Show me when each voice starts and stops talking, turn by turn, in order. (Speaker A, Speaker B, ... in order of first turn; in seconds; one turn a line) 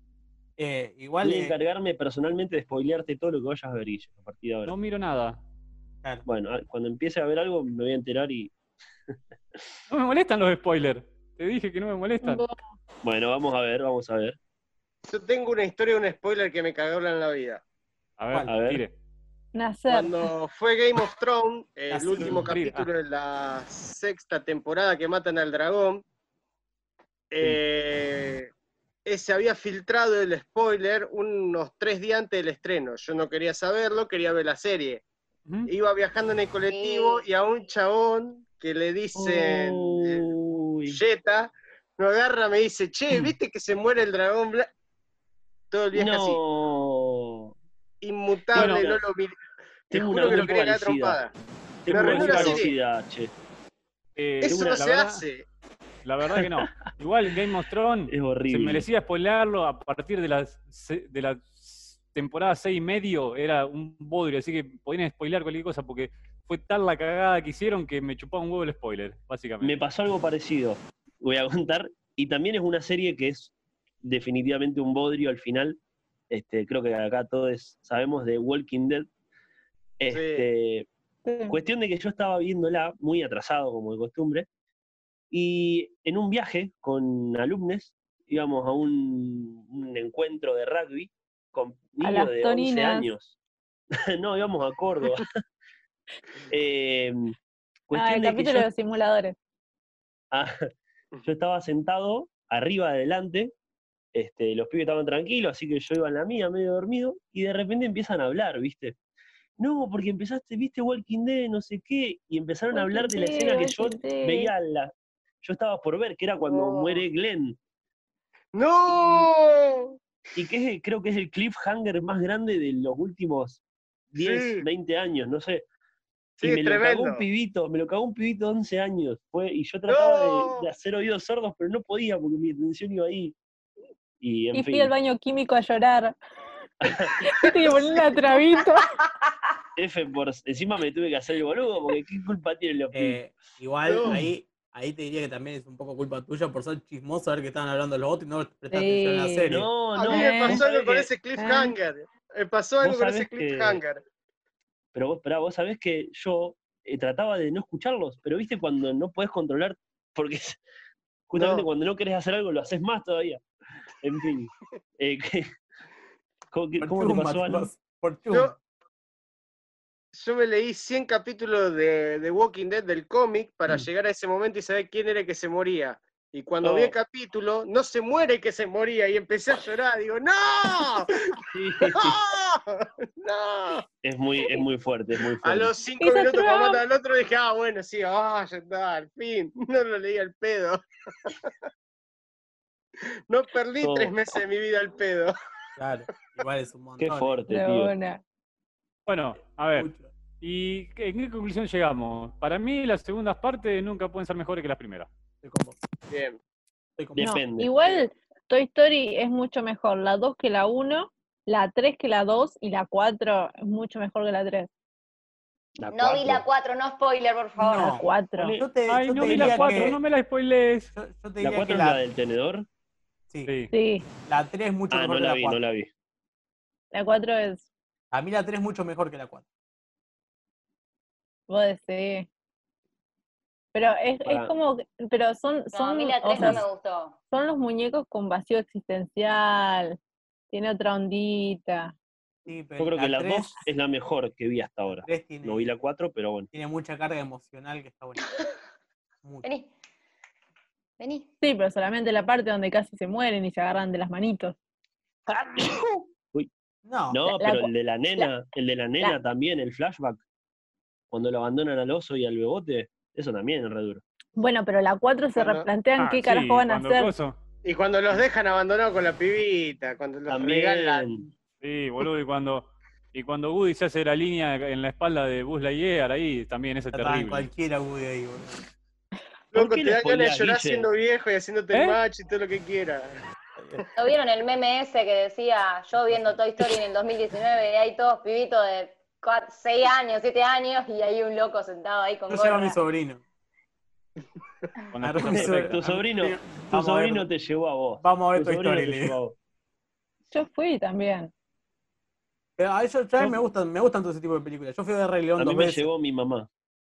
Speaker A: 0.6-1.5
Speaker B: 1.2-4.7
Speaker C: 4.7-5.4
Speaker B: 6.2-8.5
Speaker C: 9.9-12.5
Speaker D: 12.2-12.6
Speaker B: 13.0-14.4
Speaker E: 15.1-17.6
Speaker C: 18.2-18.9
Speaker B: 18.5-18.8
Speaker D: 19.5-20.1
Speaker E: 19.9-26.0
Speaker A: 21.9-22.5
Speaker C: 22.2-22.9
Speaker E: 27.3-28.5
Speaker E: 29.0-35.0
Speaker E: 35.7-40.2
Speaker F: 36.7-37.2
Speaker B: 39.1-41.0
Speaker E: 40.9-44.7
Speaker E: 45.7-46.4
Speaker B: 45.9-47.5
Speaker E: 48.0-49.4
Speaker B: 48.5-49.0
Speaker C: 48.5-48.9
Speaker B: 49.9-51.2
Speaker E: 49.9-51.3
Speaker B: 51.8-53.3
Speaker E: 51.9-52.7
Speaker C: 51.9-52.7
Speaker C: 54.2-55.2
Speaker E: 54.4-55.4
Speaker B: 54.4-54.8
Speaker C: 56.0-69.8
Speaker B: 56.4-56.9
Speaker B: 58.1-58.9
Speaker B: 69.6-75.8
Speaker B: 76.3-79.1
Speaker B: 80.0-80.9
Speaker E: 80.1-80.4
Speaker D: 81.2-81.6
Speaker B: 81.5-84.5
Speaker B: 85.3-93.4
Speaker D: 92.0-93.1
Speaker B: 94.1-95.4
Speaker B: 96.5-97.3
Speaker B: 97.9-98.7
Speaker D: 97.9-99.3
Speaker B: 100.3-100.7
Speaker B: 101.2-103.5
Speaker B: 104.1-109.0
Speaker B: 109.6-117.6
Speaker D: 112.7-114.5
Speaker E: 116.4-117.0
Speaker E: 118.5-120.0
Speaker B: 118.9-119.2
Speaker B: 120.3-123.6
Speaker B: 124.1-125.6
Speaker E: 124.2-124.6
Speaker E: 126.4-127.2
Speaker B: 126.4-133.4
Speaker E: 129.9-130.7
Speaker B: 134.2-134.9
Speaker D: 134.5-136.2
Speaker B: 136.8-137.1
Speaker D: 137.2-138.9
Speaker E: 137.5-138.0
Speaker B: 139.8-143.2
Speaker A: 142.9-149.7
Speaker E: 143.8-144.2
Speaker D: 148.7-150.6
Speaker B: 149.5-151.1
Speaker E: 149.9-154.0
Speaker D: 151.4-151.7
Speaker B: 152.8-153.8
Speaker B: 154.9-160.6
Speaker B: 161.3-163.4
Speaker E: 161.3-161.6
Speaker B: 164.0-165.5
Speaker B: 166.5-167.7
Speaker A: 166.8-168.5
Speaker E: 170.1-183.8
Speaker B: 176.6-176.9
Speaker B: 181.5-182.2
Speaker B: 184.0-185.7
Speaker E: 185.4-191.3
Speaker D: 186.0-186.8
Speaker E: 193.3-195.3
Speaker B: 193.8-194.2
Speaker A: 195.8-197.3
Speaker B: 197.0-197.9
Speaker D: 197.5-198.2
Speaker C: 199.1-199.9
Speaker A: 199.7-200.1
Speaker C: 200.4-205.1
Speaker A: 205.4-205.8
Speaker E: 206.1-206.4
Speaker A: 207.0-207.3
Speaker B: 207.2-207.7
Speaker D: 207.2-214.7
Speaker B: 215.8-216.4
Speaker F: 215.9-218.0
Speaker A: 217.6-220.0
Speaker D: 217.8-218.5
Speaker B: 218.3-220.0
Speaker C: 218.9-220.9
Speaker A: 220.9-222.0
Speaker B: 221.4-222.7
Speaker C: 223.4-223.7
Speaker D: 223.7-224.1
Speaker A: 224.2-225.6
Speaker B: 224.9-225.9
Speaker D: 226.9-227.6
Speaker A: 228.1-229.4
Speaker D: 231.5-232.3
Speaker D: 233.7-236.6
Speaker B: 234.2-234.5
Speaker F: 235.7-237.2
Speaker D: 237.3-240.0
Speaker D: 240.5-241.9
Speaker A: 242.4-243.6
Speaker B: 242.8-246.5
Speaker A: 244.9-245.8
Speaker A: 246.5-248.2
Speaker F: 249.4-249.7
Speaker F: 251.0-251.3
Speaker D: 251.4-254.5
Speaker A: 256.8-257.2
Speaker B: 257.1-260.2
Speaker D: 257.2-258.3
Speaker B: 261.1-264.0
Speaker D: 264.4-267.1
Speaker E: 265.3-265.7
Speaker C: 266.0-267.4
Speaker E: 267.6-271.2
Speaker B: 270.3-271.3
Speaker C: 271.6-277.5
Speaker A: 276.9-278.6
Speaker E: 279.5-283.2
Speaker B: 279.5-280.9
Speaker C: 281.7-282.0
Speaker A: 283.6-283.8
Speaker F: 283.9-292.8
Speaker A: 292.3-293.2
Speaker C: 294.9-295.8
Speaker A: 295.0-297.3
Speaker B: 295.2-299.4
Speaker A: 298.0-299.1
Speaker D: 300.3-301.3
Speaker A: 302.6-305.9
Speaker B: 305.4-306.5